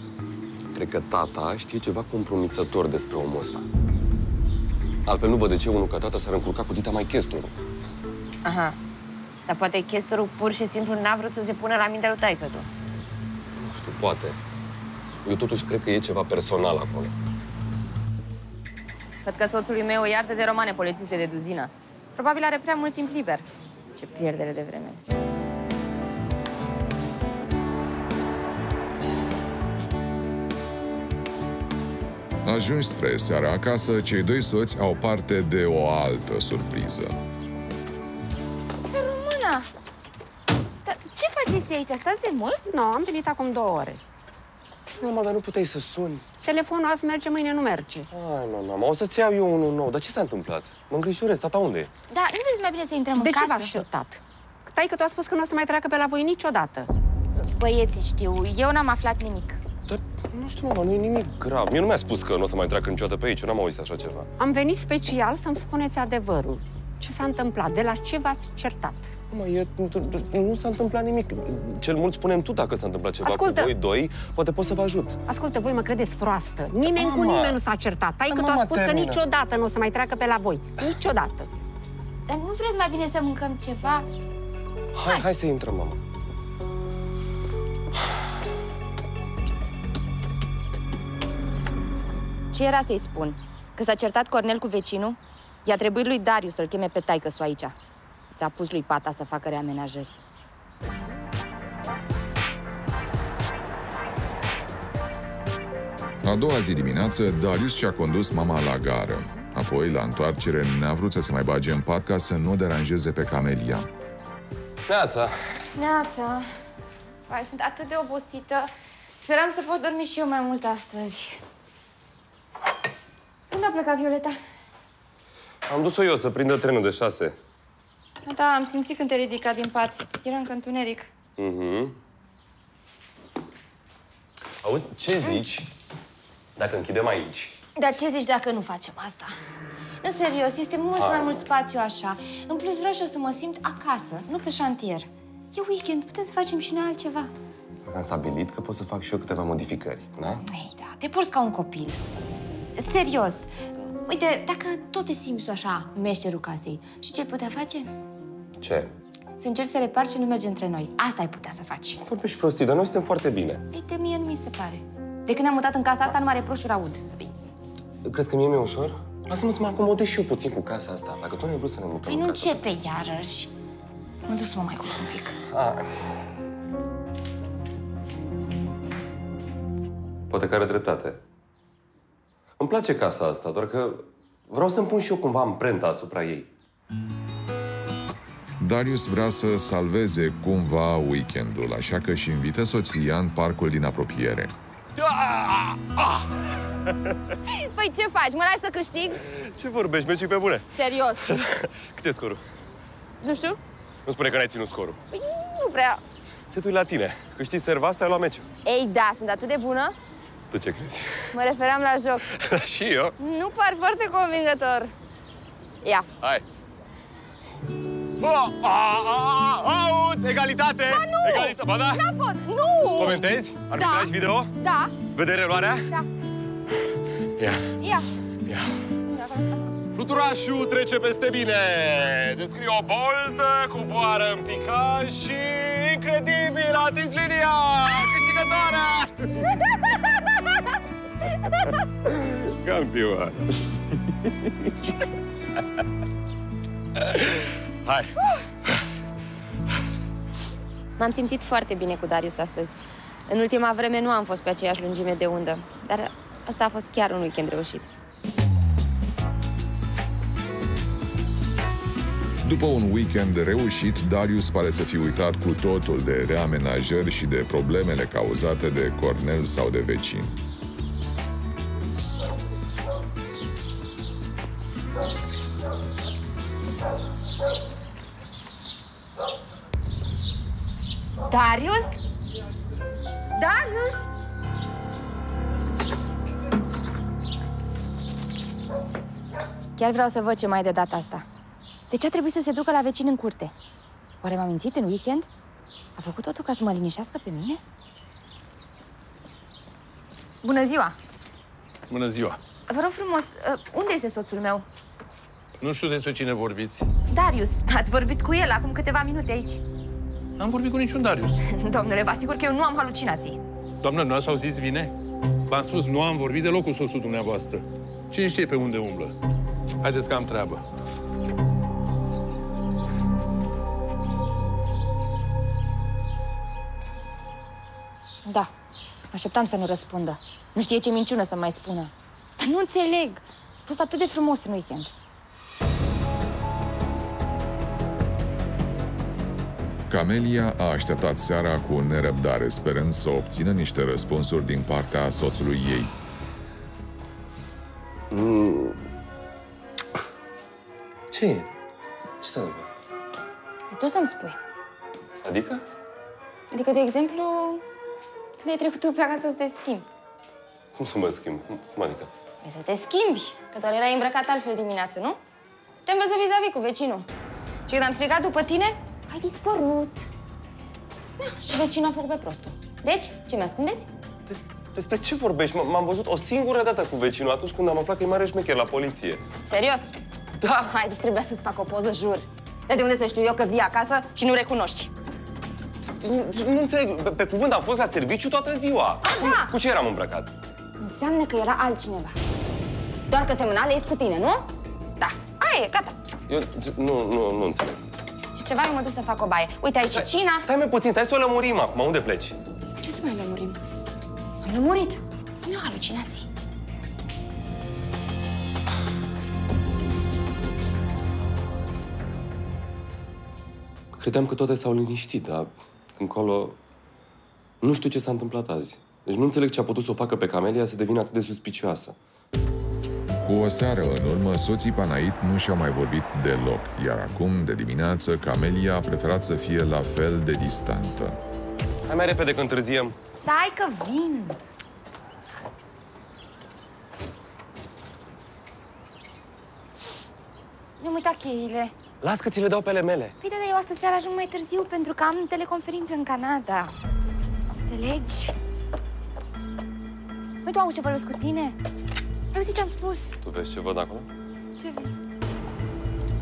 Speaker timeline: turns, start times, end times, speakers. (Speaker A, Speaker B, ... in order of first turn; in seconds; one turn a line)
Speaker A: 0.7-3.6
Speaker A: 5.1-7.5
Speaker B: 8.4-8.8
Speaker B: 9.5-12.7
Speaker A: 13.6-14.4
Speaker A: 15.2-17.1
Speaker B: 19.2-25.0
Speaker C: 32.4-37.2
Speaker B: 38.8-39.7
Speaker B: 40.9-42.6
Speaker D: 42.7-44.0
Speaker A: 45.0-46.2
Speaker D: 46.4-48.1
Speaker A: 48.1-51.9
Speaker B: 52.1-53.8
Speaker D: 53.2-56.9
Speaker B: 57.4-59.6
Speaker A: 59.9-64.3
Speaker D: 64.4-69.1
Speaker A: 69.3-75.2
Speaker D: 73.2-73.7
Speaker D: 75.3-81.5
Speaker A: 76.9-77.6
Speaker A: 78.3-79.2
Speaker B: 82.3-84.1
Speaker A: 85.0-86.0
Speaker B: 92.5-97.7
Speaker B: 98.3-100.2
Speaker C: 106.2-113.9
Speaker A: 114.9-115.4
Speaker B: 115.8-116.5
Speaker B: 117.3-121.4
Speaker B: 123.5-124.4
Speaker A: 125.7-127.4
Speaker B: 128.2-131.1
Speaker A: 131.4-132.0
Speaker A: 134.6-135.7
Speaker A: 136.6-137.6
Speaker B: 137.8-139.3
Speaker B: 140.0-147.3
Speaker A: 141.0-141.4
Speaker A: 147.9-150.4
Speaker B: 150.4-152.0
Speaker B: 152.8-157.9
Speaker A: 158.6-158.9
Speaker B: 159.4-162.0
Speaker A: 162.1-163.6
Speaker B: 163.7-167.3
Speaker A: 168.0-172.6
Speaker B: 172.1-173.5
Speaker B: 174.2-175.4
Speaker A: 175.5-176.0
Speaker A: 180.3-181.2
Speaker A: 182.6-186.5
Speaker C: 188.6-194.5
Speaker A: 195.0-197.2
Speaker B: 197.5-199.2
Speaker A: 199.2-200.7
Speaker B: 200.7-201.5
Speaker A: 201.2-202.4
Speaker B: 203.2-203.6
Speaker A: 204.1-205.0
Speaker B: 205.1-206.0
Speaker A: 206.5-208.5
Speaker B: 208.7-210.0
Speaker A: 210.5-211.3
Speaker B: 211.3-212.3
Speaker A: 212.3-213.2
Speaker B: 213.2-214.9
Speaker B: 215.8-216.1
Speaker A: 218.2-222.1
Speaker B: 220.9-223.2
Speaker A: 223.0-224.5
Speaker B: 223.8-224.9
Speaker A: 225.1-225.9
Speaker A: 227.4-227.8
Speaker B: 227.8-228.1
Speaker A: 228.4-228.8
Speaker B: 229.1-229.7
Speaker A: 229.9-240.4
Speaker A: 241.4-243.6
Speaker A: 244.2-244.8
Speaker A: 246.9-248.2
Speaker B: 251.0-257.9
Speaker C: 262.4-270.4
Speaker B: 281.3-282.0
Speaker B: 283.3-284.1
Speaker B: 289.8-291.2
Speaker B: 291.9-293.5
Speaker B: 294.2-295.3
Speaker B: 296.0-297.6
Speaker B: 300.4-301.0
Speaker E: 301.9-302.4
Speaker B: 302.7-304.7
Speaker E: 305.6-306.9
Speaker B: 307.1-309.6
Speaker E: 310.4-311.4
Speaker B: 311.4-313.4
Speaker E: 313.8-314.9
Speaker E: 315.5-319.1
Speaker E: 319.8-320.6
Speaker B: 328.3-328.5
Speaker B: 329.1-334.9
Speaker C: 339.9-345.9
Speaker A: 348.1-348.8
Speaker A: 351.1-351.5
Speaker A: 352.2-352.7
Speaker B: 353.7-354.4
Speaker A: 355.2-355.6
Speaker B: 356.5-357.6
Speaker B: 358.4-359.9
Speaker A: 360.8-362.1
Speaker B: 362.4-365.2
Speaker B: 365.9-367.1
Speaker B: 367.7-370.1
Speaker B: 371.2-373.9
Speaker A: 374.3-379.2
Speaker B: 379.4-384.9
Speaker A: 385.8-390.3
Speaker B: 389.0-389.5
Speaker B: 390.8-392.2
Speaker B: 393.1-394.5
Speaker B: 395.0-395.9
Speaker A: 396.3-397.8
Speaker B: 398.3-400.5
Speaker A: 399.9-402.4
Speaker B: 402.8-403.6
Speaker B: 404.4-406.3
Speaker A: 413.9-416.6
Speaker A: 417.6-422.0
Speaker C: 423.2-431.2
Speaker A: 431.9-432.9
Speaker B: 433.2-434.4
Speaker B: 440.8-441.7
Speaker A: 442.0-443.2
Speaker B: 443.2-446.7
Speaker B: 447.6-448.4
Speaker B: 450.4-451.6
Speaker B: 452.3-453.2
Speaker A: 453.2-454.1
Speaker B: 454.6-455.0